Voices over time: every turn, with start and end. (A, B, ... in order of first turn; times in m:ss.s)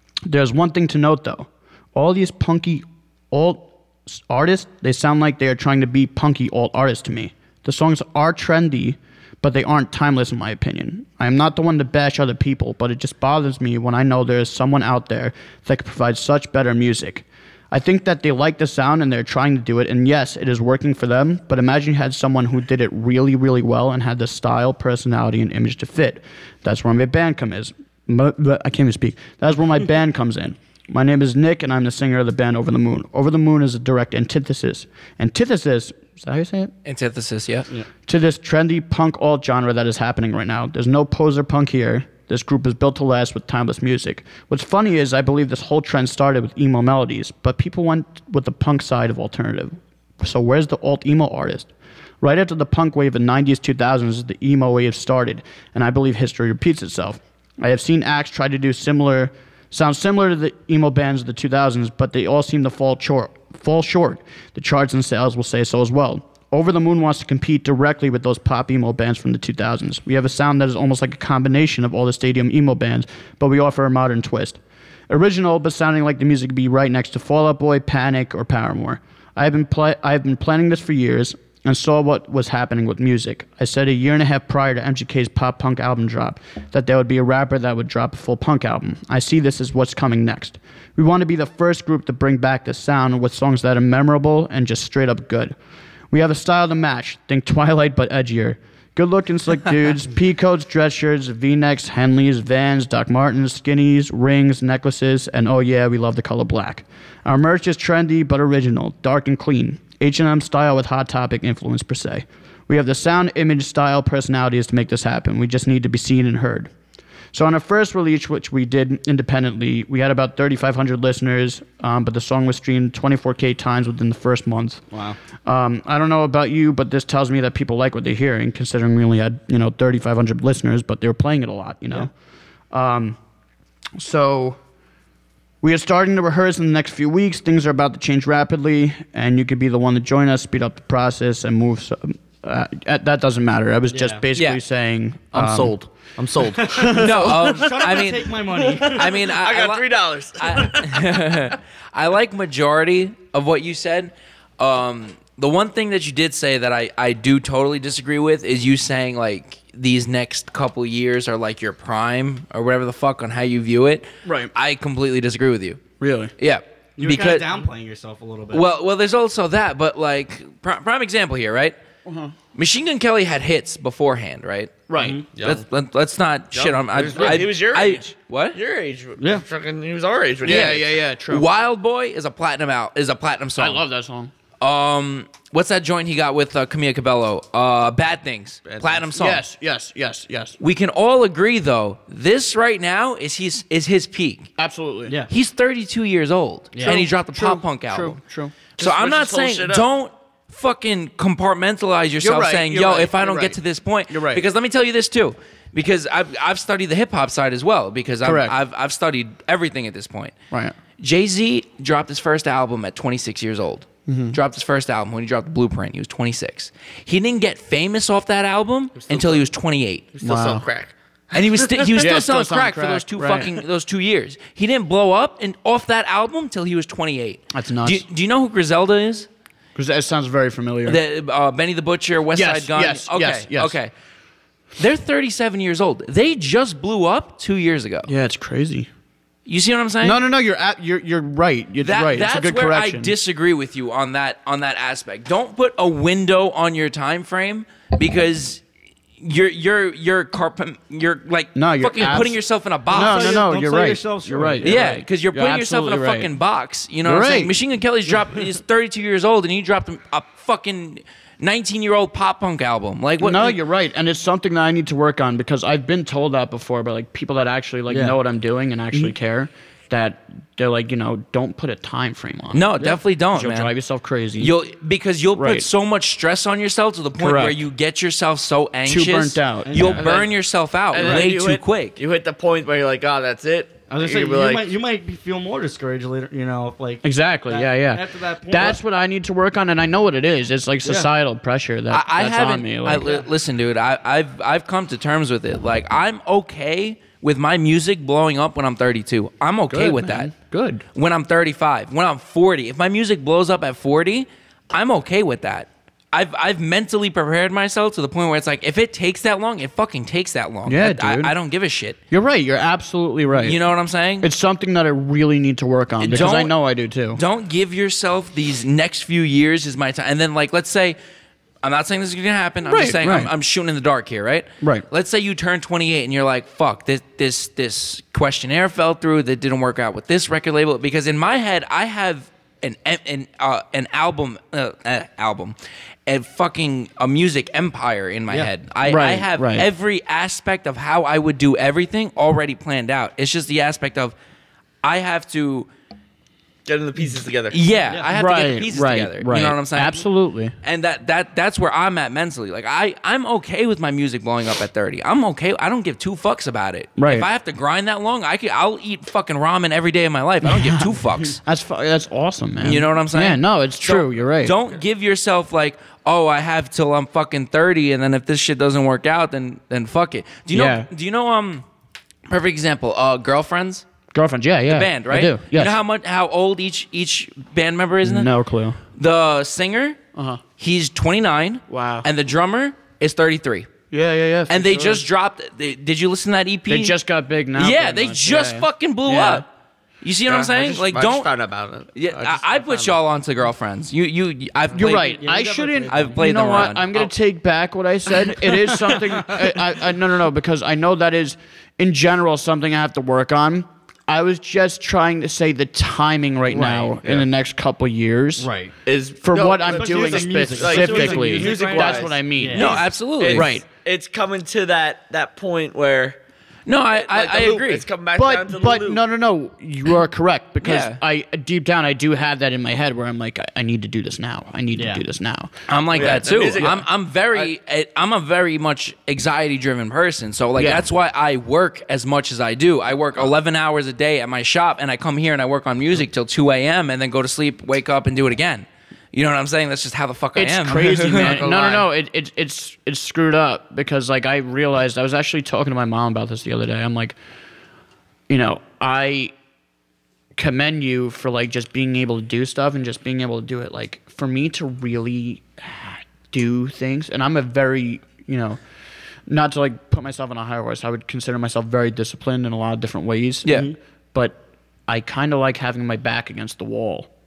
0:00.2-0:36.7 A
0:36.8-0:37.7 B
0:38.0-0:51.7 A
0:52.2-1:35.5 A
1:36.1-1:56.7 A
1:57.3-2:04.8 A
2:04.9-2:05.2 C
2:05.4-2:12.1 A
2:12.7-2:13.2 A
2:14.0-2:14.6 A
2:15.6-2:25.8 A
2:23.9-2:24.2 C
2:24.3-2:24.6 B
2:25.3-2:31.6 D
2:26.6-2:29.1 C
2:26.9-2:28.4 B
2:28.9-2:45.8 B
2:44.2-2:44.5 A
2:46.0-2:46.3 A
2:46.4-2:47.4 B
2:47.0-2:48.6 C
2:48.5-2:51.8 B
2:52.0-2:52.3 A
2:52.5-2:54.8 B
2:54.9-2:55.2 A
2:55.0-2:55.3 C
2:55.4-2:55.6 D
2:55.4-2:58.6 B
2:56.5-3:00.8 D
2:59.2-2:59.4 C
3:00.4-3:01.5 A
3:00.4-3:03.8 B
3:03.6-3:04.3 A
3:04.6-3:09.4 B
3:08.6-3:09.1 D
3:09.1-3:10.6 A
3:10.6-3:14.5 B
3:14.6-3:15.2 A
3:15.3-3:18.2 B
3:16.7-3:17.0 C
3:16.8-3:18.5 A
3:18.8-3:30.3 B
3:18.8-3:19.8 D
3:22.2-3:24.4 A
3:28.2-3:28.6 A
3:30.5-3:30.8 A
3:31.0-3:40.1 B
3:34.1-3:34.4 A
3:39.0-3:39.4 D
3:40.1-3:42.1 D
3:40.2-3:40.6 A
3:41.3-3:49.3 B
3:42.0-3:43.6 A
3:47.5-3:48.0 A
3:49.7-3:51.0 A
3:50.8-3:53.9 B
3:52.3-3:53.8 A
3:54.8-3:58.1 B
3:58.0-3:58.9 A
3:59.4-4:00.2 B
4:00.0-4:03.1 A
4:01.8-4:08.6 B
4:09.2-4:13.4 B
4:11.5-4:12.4 A
4:12.9-4:14.9 C
4:12.9-4:16.3 A
4:14.6-4:23.6 B
4:17.0-4:17.6 A
4:23.2-4:34.5 A
4:27.9-4:28.2 C
4:32.5-4:33.7 B
4:34.4-4:42.0 B
4:35.3-4:35.7 A
4:37.2-4:37.6 A
4:38.8-4:40.1 A
4:39.6-4:40.0 C
4:40.0-4:40.3 D
4:40.9-4:44.7 D
4:43.9-4:48.8 C
4:47.0-4:53.2 A
4:50.8-4:51.1 C
4:51.9-5:00.3 B
4:59.7-5:00.8 A
5:00.9-5:12.0 B
5:10.6-5:11.3 A
5:12.1-5:13.6 A
5:13.4-5:14.3 B
5:14.2-5:17.2 A
5:16.0-5:16.5 B
5:17.1-5:21.0 B
5:21.6-5:35.5 B
5:22.6-5:23.3 A
5:36.0-5:44.1 B
5:38.8-5:39.7 A
5:44.8-5:45.7 B
5:46.6-5:47.6 D
5:47.5-5:50.0 B
5:48.1-5:50.5 A
5:50.6-6:01.4 B
5:57.0-5:57.3 A
6:00.4-6:04.6 A
6:02.6-6:11.6 B
6:10.5-6:10.9 A
6:12.3-6:13.9 B
6:14.1-6:15.8 A
6:14.7-6:18.3 B
6:18.0-6:18.8 A
6:19.0-6:20.0 B
6:20.1-6:20.4 A
6:20.6-6:23.7 B
6:21.7-6:22.1 A
6:23.9-6:25.0 A
6:24.5-6:26.9 B
6:26.7-6:29.4 A
6:27.6-6:29.4 B
6:30.0-6:31.3 B
6:30.3-6:33.0 D
6:31.9-6:35.2 B
6:34.7-6:48.5 A
6:34.8-6:36.2 C
6:35.9-6:37.1 B
6:38.7-6:39.2 C
6:46.5-6:47.2 D
6:48.4-6:48.7 C
6:48.8-6:52.2 D
6:49.2-6:53.6 A
6:49.6-6:52.8 C
6:52.5-6:53.5 B
6:52.7-6:56.2 D
6:56.6-6:57.9 B
6:56.9-6:59.0 D
6:58.1-7:06.8 A
7:00.6-7:01.0 B
7:04.8-7:05.0 C
7:05.7-7:21.6 B
7:05.9-7:06.8 D
7:10.6-7:10.8 A
7:20.4-7:27.2 A
7:21.2-7:21.8 D
7:28.3-7:29.3 A
7:30.4-7:38.6 A
7:39.3-7:47.1 A
7:43.4-7:43.7 B
7:43.5-7:43.8 C